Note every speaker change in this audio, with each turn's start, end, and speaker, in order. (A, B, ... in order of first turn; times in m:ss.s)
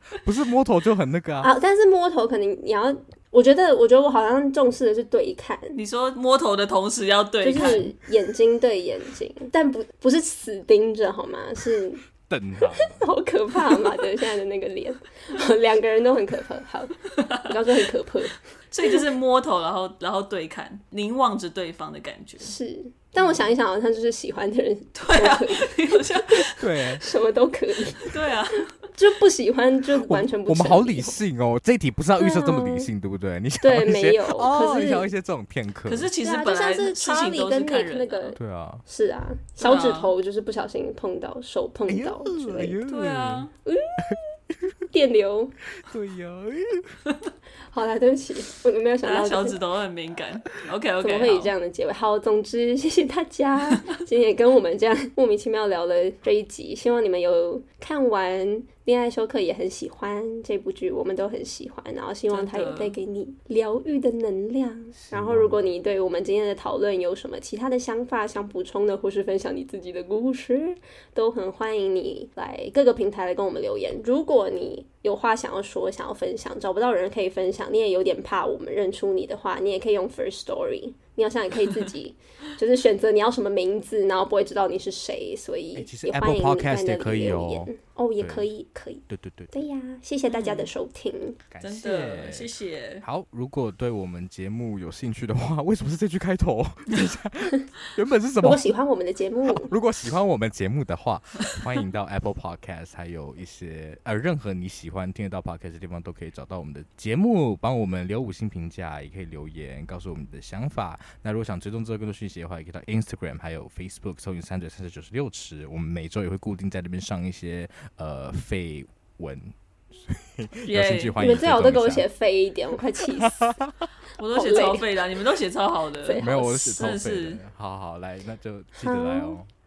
0:00.2-0:01.5 A
0:01.4-0:05.8 B
0:05.8-0:07.9 C
0:07.4-0:12.0 B
0:12.2-0:13.0 A
0:12.8-0:19.0 B
0:18.7-0:22.6 C
0:22.4-0:26.5 B
0:23.2-0:23.5 C
0:25.0-0:26.7 C
0:26.6-0:27.0 A
0:27.0-0:28.3 B
0:28.1-0:28.7 C
0:28.9-0:31.2 B
0:30.0-0:36.1 A
0:32.2-0:32.9 B
0:33.6-0:35.1 B
0:35.9-0:38.4 C
0:36.2-0:42.8 B
0:38.4-0:38.8 A
0:39.6-0:40.1 C
0:41.9-0:43.5 A
0:42.9-0:43.5 C
0:43.6-0:44.2 B
0:44.9-0:45.6 B
0:45.8-0:47.0 A
0:47.7-0:49.6 B
0:49.0-0:51.5 C
0:51.0-1:31.4 B
1:02.3-1:03.0 C
1:05.0-1:05.6 A
1:25.8-1:28.5 A
1:29.1-1:29.5 A
1:30.3-1:30.7 C
1:31.5-1:38.6 A
1:31.6-1:33.0 C
1:38.4-1:39.7 B
1:39.5-2:02.1 A
2:00.7-2:01.2 C
2:01.2-2:03.5 B
2:03.2-2:03.9 A
2:04.2-2:07.4 C
2:04.3-2:05.0 B
2:06.0-2:06.8 B
2:06.2-2:09.5 A
2:08.8-2:09.4 B